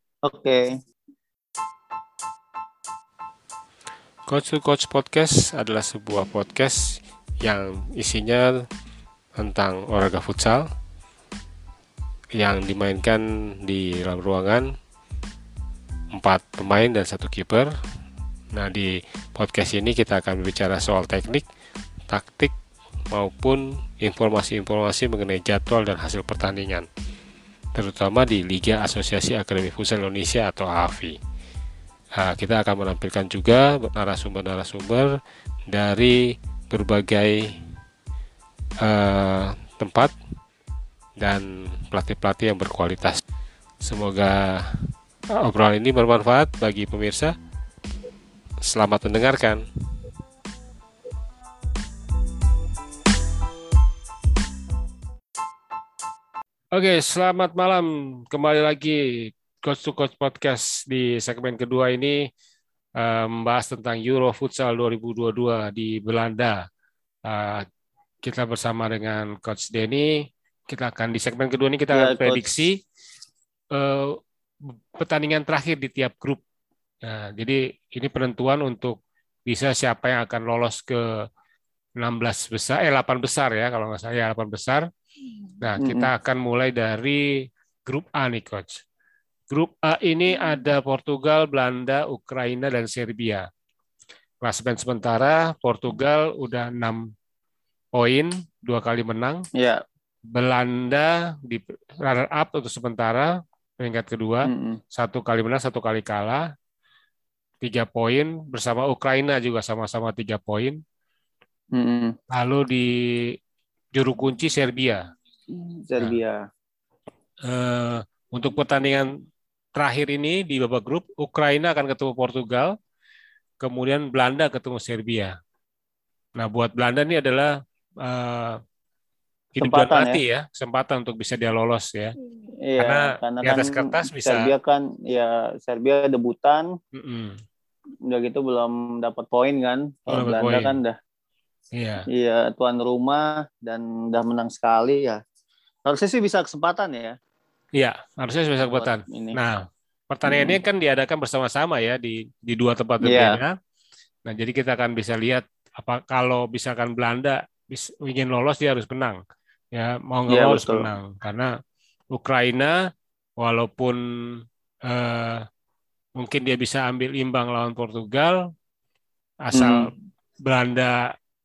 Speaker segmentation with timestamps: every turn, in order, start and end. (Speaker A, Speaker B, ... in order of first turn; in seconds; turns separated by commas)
Speaker A: 0.3-0.7, Speaker B: 4.3-8.7, Speaker B: 9.4-10.7, Speaker B: 12.3-14.7, Speaker B: 16.1-17.7, Speaker B: 18.6-21.5, Speaker B: 22.1-22.6, Speaker B: 23.1-26.9, Speaker B: 27.8-31.2, Speaker B: 32.2-35.1, Speaker B: 35.7-37.5, Speaker B: 38.8-40.1, Speaker B: 41.2-43.2, Speaker B: 43.8-44.7, Speaker B: 45.4-47.4, Speaker B: 48.6-49.6, Speaker B: 56.7-62.2, Speaker B: 63.0-66.6, Speaker B: 67.2-67.7, Speaker B: 68.2-70.1, Speaker B: 70.7-72.8, Speaker A: 71.9-72.5, Speaker B: 73.7-76.4, Speaker B: 77.0-81.0, Speaker B: 82.0-84.9, Speaker B: 85.6-88.8, Speaker A: 85.8-86.1, Speaker B: 89.5-93.5, Speaker B: 94.4-97.1, Speaker B: 98.0-99.5, Speaker B: 100.3-106.5, Speaker A: 104.5-104.8, Speaker B: 107.6-110.8, Speaker A: 111.7-112.2, Speaker B: 112.3-112.9, Speaker B: 113.9-115.0, Speaker A: 115.5-116.4, Speaker B: 117.5-119.1, Speaker B: 119.8-122.7, Speaker B: 123.6-125.3, Speaker B: 126.4-127.5, Speaker B: 128.0-128.6, Speaker B: 129.5-132.1, Speaker A: 129.6-130.2, Speaker A: 132.6-136.7, Speaker B: 132.8-134.5, Speaker B: 136.9-137.4, Speaker A: 138.1-141.0, Speaker B: 140.1-140.8, Speaker B: 141.8-142.1, Speaker A: 142.1-145.2, Speaker A: 145.9-147.2, Speaker B: 147.8-153.6, Speaker A: 148.8-149.4, Speaker A: 150.3-150.6, Speaker A: 153.0-153.4, Speaker B: 154.3-159.2, Speaker B: 159.7-161.5, Speaker A: 160.3-160.9, Speaker B: 162.1-162.8, Speaker B: 163.4-165.4, Speaker B: 166.2-168.4, Speaker B: 169.4-169.9, Speaker A: 169.5-169.9, Speaker B: 170.4-171.1